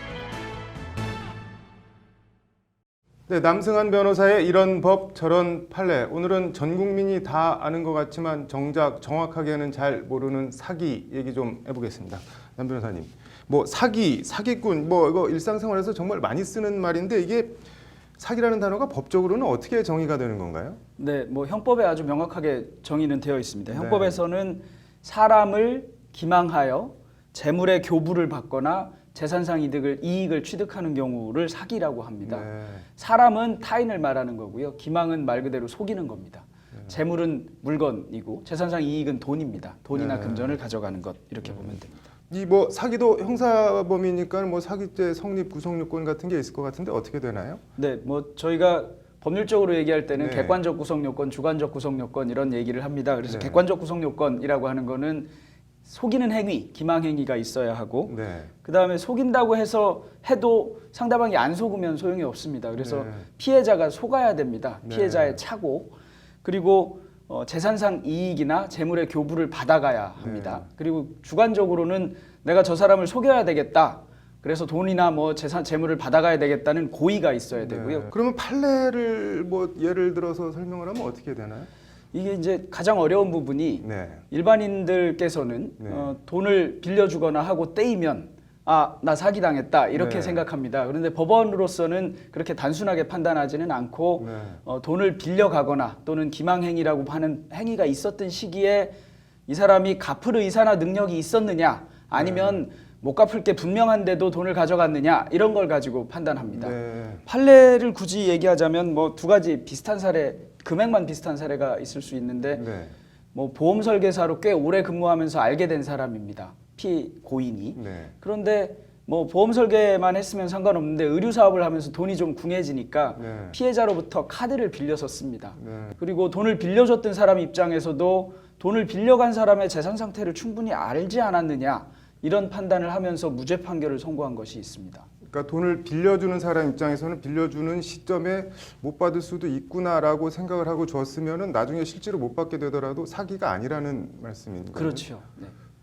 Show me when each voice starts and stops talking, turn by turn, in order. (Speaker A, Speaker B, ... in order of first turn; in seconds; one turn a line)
Speaker A: 3.3-17.6
Speaker A: 18.2-20.8
Speaker B: 21.0-42.0
Speaker A: 23.7-24.2
Speaker A: 32.2-32.8
Speaker A: 39.9-40.6
Speaker A: 42.3-47.6
Speaker B: 47.8-55.3
Speaker A: 50.1-50.6
Speaker A: 53.2-53.6
Speaker B: 55.8-78.1
Speaker A: 58.0-58.5
Speaker A: 62.8-63.3
Speaker A: 64.8-65.4
Speaker A: 70.2-70.7
Speaker A: 77.6-81.7
Speaker B: 82.1-98.9
Speaker A: 83.8-84.2
Speaker A: 85.8-86.1
Speaker A: 89.9-90.4
Speaker A: 94.2-94.6
Speaker B: 99.5-106.8
Speaker A: 102.1-102.6
Speaker A: 106.5-107.2
Speaker B: 107.3-112.6
Speaker A: 112.5-112.9
Speaker B: 113.3-135.1
Speaker A: 117.7-118.1
Speaker A: 123.2-123.6
Speaker A: 125.6-126.0
Speaker A: 135.2-145.1
Speaker B: 144.7-145.5